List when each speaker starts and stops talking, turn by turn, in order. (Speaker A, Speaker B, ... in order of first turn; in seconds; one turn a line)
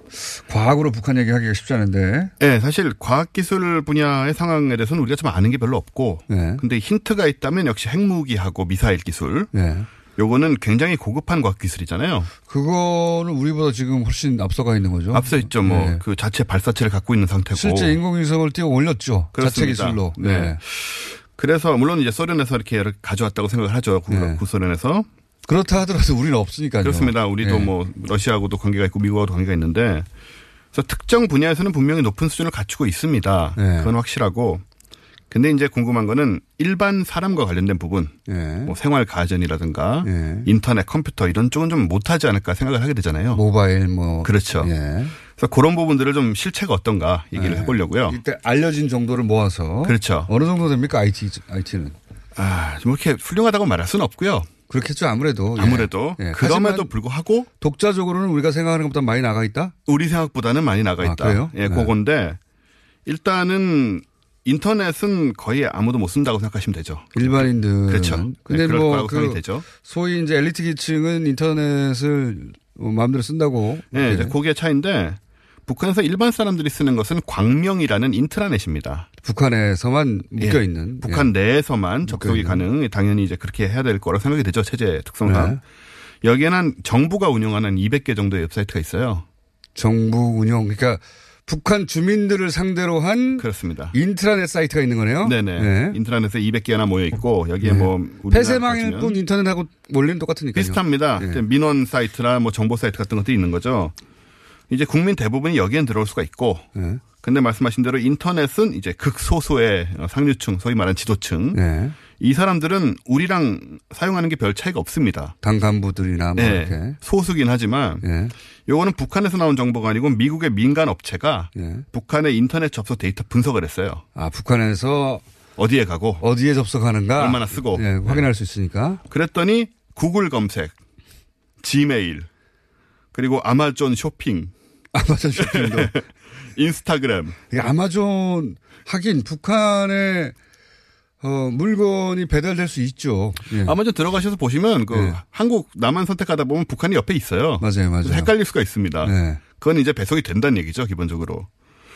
Speaker A: 0.3-2.3
Speaker B: 2.4-9.5
Speaker A: 6.3-6.6
Speaker A: 9.5-9.9
Speaker B: 10.2-12.3
Speaker A: 12.5-16.0
Speaker B: 15.1-18.0
Speaker A: 17.5-20.6
Speaker B: 19.4-25.1
Speaker A: 24.1-24.4
Speaker A: 25.4-27.7
Speaker B: 26.8-30.1
Speaker B: 30.7-34.6
Speaker A: 33.6-33.9
Speaker B: 35.3-43.4
Speaker A: 38.3-38.8
Speaker A: 40.0-40.5
Speaker A: 43.3-45.1
Speaker B: 44.2-48.2
Speaker A: 47.4-52.0
Speaker B: 49.8-50.3
Speaker B: 52.4-54.5
Speaker A: 54.7-56.9
Speaker B: 55.6-57.5
Speaker A: 57.6-59.8
Speaker B: 59.9-62.4
Speaker A: 61.0-61.9
Speaker B: 63.1-69.7
Speaker A: 67.1-74.3
Speaker B: 73.9-79.1
Speaker A: 79.2-81.3
Speaker B: 80.4-85.6
Speaker A: 82.0-82.7
Speaker A: 85.2-85.6
Speaker B: 86.2-89.2
Speaker A: 89.8-96.0
Speaker B: 93.4-93.9
Speaker B: 95.2-99.2
Speaker A: 97.6-101.4
Speaker B: 100.5-104.0
Speaker B: 104.7-115.3
Speaker A: 106.8-107.0
Speaker A: 111.5-112.0
Speaker A: 115.4-117.0
Speaker B: 116.4-118.0
Speaker A: 118.0-118.3
Speaker B: 118.7-124.0
Speaker A: 121.6-121.8
Speaker A: 124.2-125.2
Speaker B: 125.6-126.3
Speaker A: 126.2-129.0
Speaker B: 127.2-128.3
Speaker B: 129.1-130.8
Speaker B: 131.6-132.3
Speaker B: 133.1-134.5
Speaker A: 134.9-135.9
Speaker B: 135.4-136.0
Speaker B: 136.6-137.4
Speaker A: 137.5-140.3
Speaker A: 141.2-143.8
Speaker B: 143.6-151.5
Speaker A: 144.9-145.2
Speaker A: 147.6-148.3
Speaker A: 149.0-149.4